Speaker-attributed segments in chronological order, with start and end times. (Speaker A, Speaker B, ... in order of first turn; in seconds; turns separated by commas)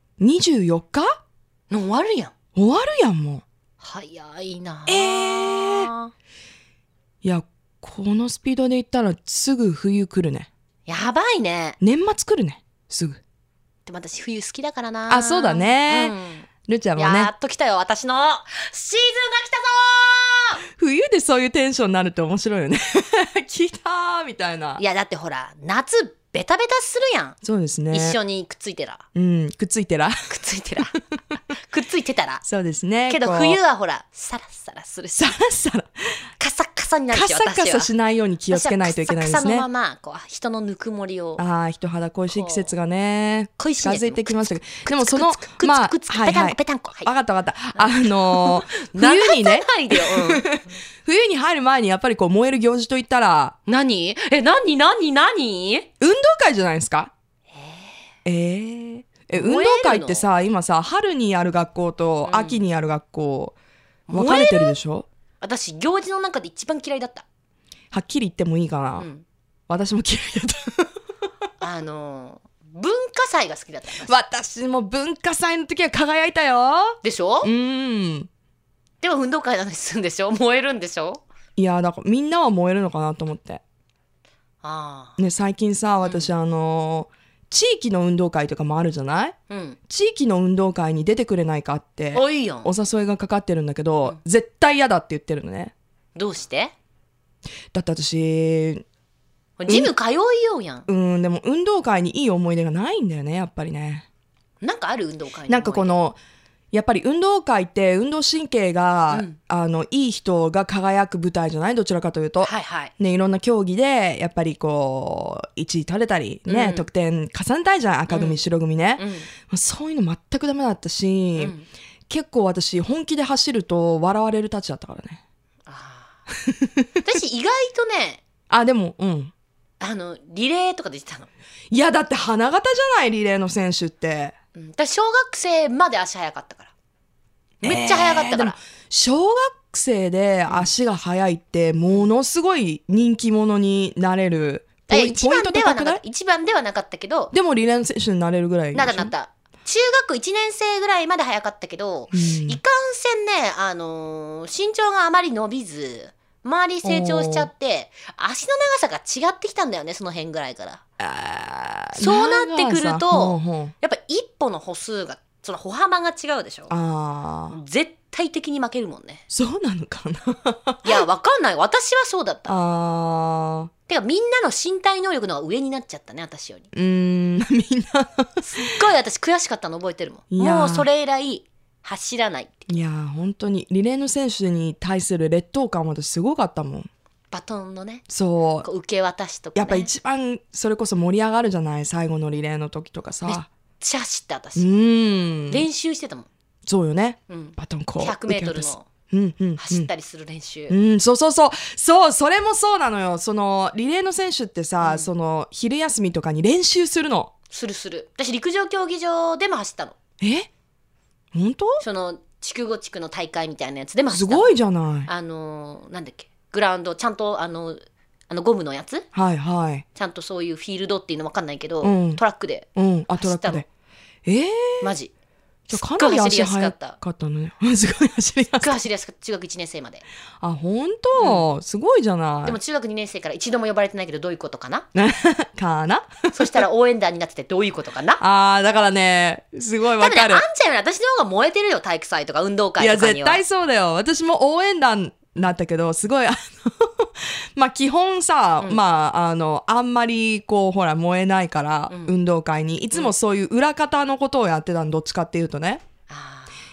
Speaker A: 0.2-1.2, Speaker B: 1.7-2.4, Speaker A: 2.5-3.4, Speaker B: 3.8-6.1, Speaker A: 4.8-5.9, Speaker A: 7.2-10.5, Speaker B: 10.9-11.8, Speaker A: 11.8-13.2, Speaker B: 13.8-20.6, Speaker A: 15.1-17.3, Speaker A: 20.8-24.8, Speaker B: 24.8-27.4, Speaker A: 27.4-28.2, Speaker B: 27.9-29.0, Speaker A: 29.1-30.1, Speaker B: 30.3-31.0, Speaker B: 31.6-32.4, Speaker A: 32.4-33.6, Speaker B: 33.0-35.4, Speaker A: 35.2-35.9, Speaker B: 36.4-37.9, Speaker A: 37.1-39.7, Speaker B: 38.5-41.4, Speaker A: 41.4-53.6, Speaker B: 42.3-42.7, Speaker B: 43.6-47.1, Speaker B: 47.7-50.6, Speaker B: 53.7-55.9, Speaker A: 56.0-57.1, Speaker B: 57.5-57.9, Speaker A: 58.2-63.5, Speaker B: 59.3-60.3, Speaker B: 62.2-62.6, Speaker B: 64.1-64.8, Speaker A: 64.1-65.0, Speaker B: 65.4-67.2, Speaker A: 67.9-69.1, Speaker B: 69.0-69.2, Speaker A: 69.7-70.9, Speaker B: 71.6-74.2, Speaker A: 74.0-78.3, Speaker B: 77.0-77.5, Speaker B: 79.0-81.2, Speaker A: 81.5-83.6, Speaker B: 84.6-85.2, Speaker A: 85.2-89.3, Speaker B: 86.0-86.3, Speaker B: 89.5-89.8, Speaker A: 89.9-95.7, Speaker B: 92.1-92.7, Speaker B: 96.1-96.7, Speaker A: 97.7-98.8, Speaker B: 99.6-100.9, Speaker A: 99.7-99.9, Speaker A: 100.9-104.0, Speaker B: 104.6-106.0, Speaker A: 105.5-106.2, Speaker A: 106.7-121.5, Speaker B: 109.1-109.4, Speaker B: 112.4-112.9, Speaker B: 116.5-116.9, Speaker B: 118.1-118.4, Speaker B: 119.0-119.3, Speaker B: 121.4-121.7, Speaker A: 122.1-125.2, Speaker B: 125.7-126.2, Speaker A: 126.5-126.9, Speaker B: 127.0-128.2, Speaker A: 128.5-129.3, Speaker B: 129.8-131.3, Speaker A: 131.7-134.3, Speaker B: 134.5-136.7, Speaker B: 137.6-138.6, Speaker A: 137.6-146.0, Speaker B: 140.5-140.7, Speaker B: 144.8-147.3, Speaker A: 147.3-149.1, Speaker B: 148.7-160.8, Speaker A: 152.1-152.6, Speaker A: 156.8-157.5, Speaker A: 161.0-163.7, Speaker B: 161.9-166.7, Speaker A: 166.7-167.6, Speaker B: 167.5-169.2, Speaker A: 169.3-171.0, Speaker B: 170.8-172.6, Speaker A: 172.5-173.7, Speaker B: 173.9-176.7, Speaker A: 176.7-178.7, Speaker B: 178.4-182.8, Speaker A: 180.3-180.9, Speaker A: 182.7-186.9, Speaker B: 187.3-188.0, Speaker A: 188.1-188.7, Speaker B: 188.6-189.9, Speaker A: 189.5-193.5, Speaker B: 193.2-194.7, Speaker A: 194.6-195.7, Speaker B: 195.5-196.3, Speaker A: 196.7-199.9, Speaker B: 197.3-198.9, Speaker B: 199.6-200.7, Speaker A: 200.7-207.3, Speaker B: 204.8-205.1, Speaker B: 207.5-210.0, Speaker A: 210.2-210.5, Speaker A: 211.3-211.8, Speaker B: 211.8-219.1, Speaker A: 214.1-215.1, Speaker A: 219.1-219.8, Speaker B: 219.9-223.6, Speaker A: 221.8-222.2, Speaker A: 222.7-223.7, Speaker A: 224.2-224.9, Speaker B: 224.8-225.1, Speaker A: 225.7-228.8, Speaker B: 225.7-227.0, Speaker B: 228.6-230.0, Speaker A: 230.4-232.6, Speaker B: 231.1-231.5, Speaker B: 232.4-234.9, Speaker A: 234.9-236.7, Speaker B: 236.3-238.2, Speaker A: 238.2-240.4, Speaker B: 239.8-243.4, Speaker A: 242.8-255.9, Speaker B: 251.9-252.2, Speaker B: 256.1-256.5